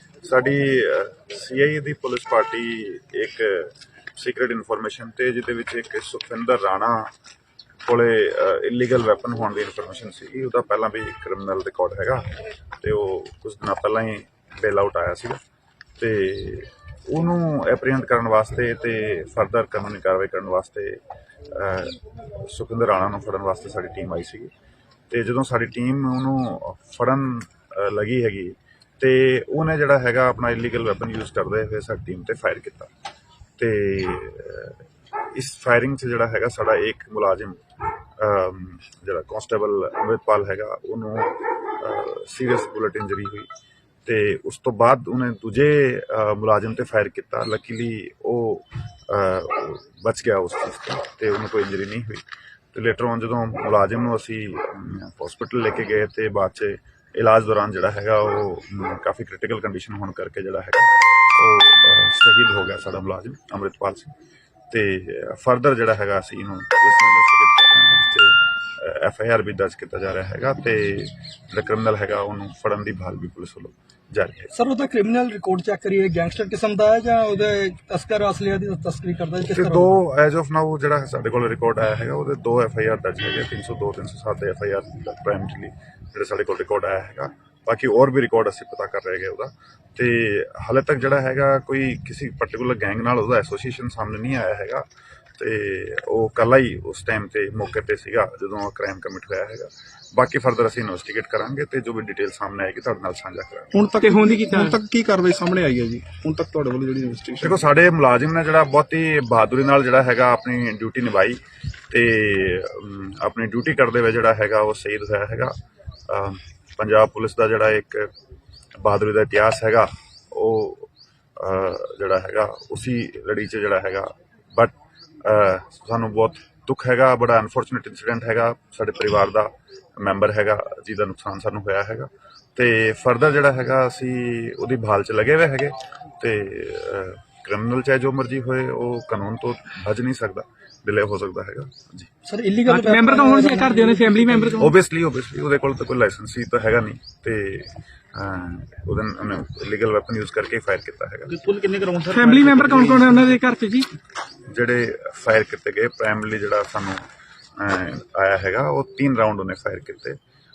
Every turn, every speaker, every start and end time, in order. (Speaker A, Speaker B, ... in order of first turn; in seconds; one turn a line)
Speaker A: 0.2-7.1
Speaker A: 7.8-15.4
Speaker A: 16.0-24.5
Speaker A: 25.1-32.9
Speaker A: 33.6-37.6
Speaker A: 38.2-43.5
Speaker A: 44.0-64.1
Speaker A: 64.7-74.5
Speaker B: 74.5-80.0
Speaker A: 79.5-94.8
Speaker A: 95.4-103.8
Speaker C: 103.7-107.6
Speaker D: 104.0-104.8
Speaker A: 107.4-111.4
Speaker A: 111.9-115.5
Speaker A: 116.1-118.1
Speaker A: 118.8-142.1
Speaker B: 142.3-144.6
Speaker D: 142.7-144.7
Speaker A: 144.6-151.4
Speaker C: 151.3-153.3
Speaker D: 152.1-153.9
Speaker A: 154.5-157.0
Speaker A: 157.6-160.2